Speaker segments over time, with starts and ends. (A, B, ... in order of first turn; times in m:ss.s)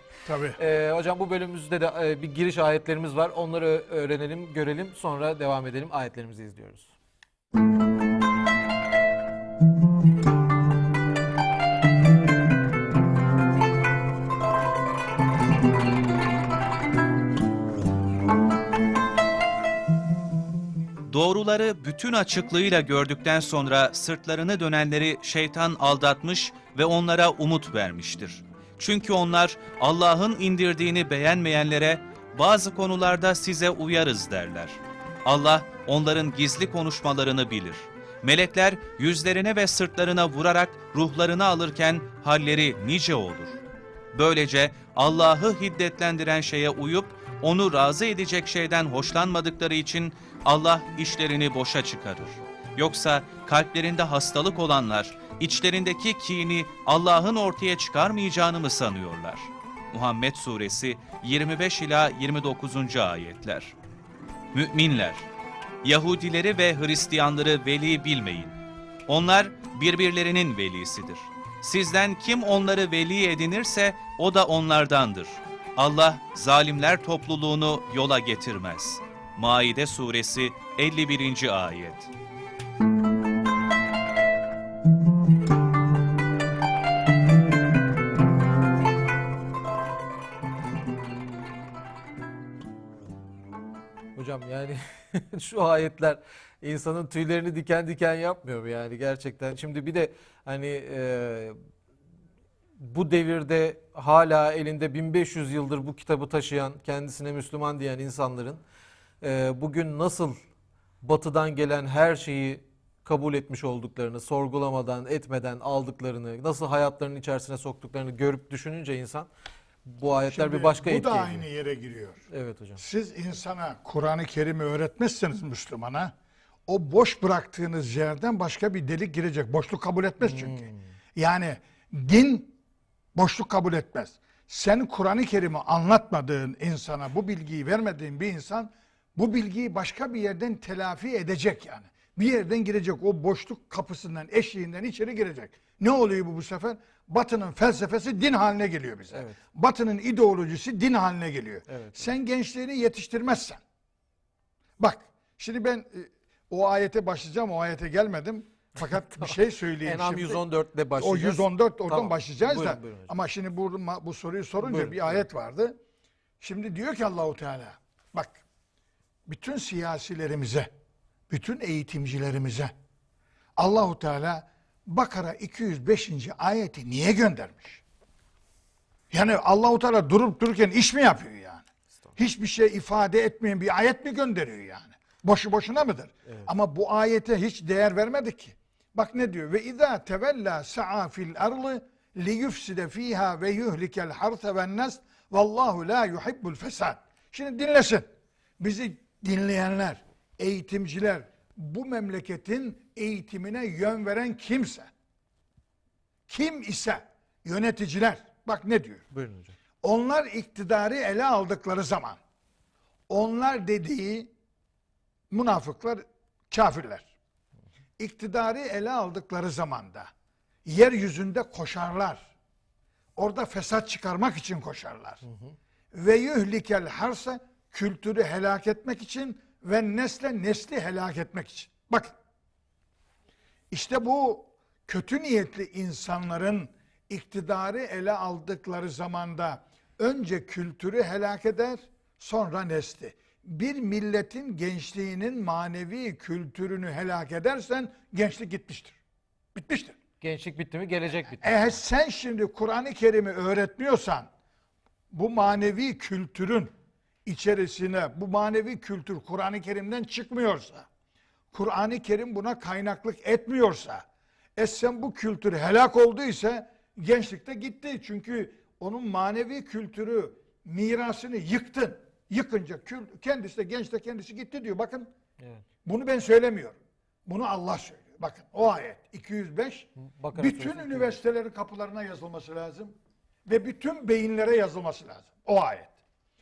0:00.2-0:00.6 A
0:00.6-0:06.9 B
0:21.0-0:43.6 C
0:44.1-1:03.7 C
1:04.5-1:05.3 C
1:05.8-1:22.1 C
1:34.1-1:41.6 B
1:42.8-1:48.6 B
1:49.2-1:50.4 B
1:51.0-1:59.3 B
1:59.8-2:01.4 B
2:00.3-2:02.2 A
2:02.3-2:02.8 B
2:02.8-2:06.1 A
2:06.7-2:12.5 A
2:10.2-2:10.9 B
2:13.1-2:33.6 A
2:29.1-2:29.4 B
2:31.7-2:32.1 B
2:34.8-2:40.4 A
2:38.8-2:43.1 B
2:41.0-2:45.8 A
2:44.6-2:45.2 B
2:46.4-2:48.4 A
2:49.2-2:50.7 A
2:51.3-2:52.7 A
2:53.6-2:57.8 A
2:59.1-3:01.6 A
3:02.2-3:18.1 A
3:18.6-3:24.9 A
3:26.3-3:29.0 A
3:29.1-3:29.6 B
3:29.8-3:32.2 A
3:33.1-3:34.3 A
3:35.3-3:37.1 A
3:38.0-3:40.1 A
3:40.6-3:42.3 A
3:43.2-3:45.2 A
3:45.2-3:45.5 B
3:45.9-3:52.2 A
3:53.7-4:09.0 A
4:09.5-4:10.0 A
4:10.2-4:11.8 B
4:11.4-4:14.3 A
4:15.1-4:16.7 A
4:17.2-4:20.9 A
4:21.5-4:24.0 A
4:24.6-4:35.1 A
4:35.8-4:42.9 A
4:40.0-4:41.2 B
4:43.5-4:45.9 A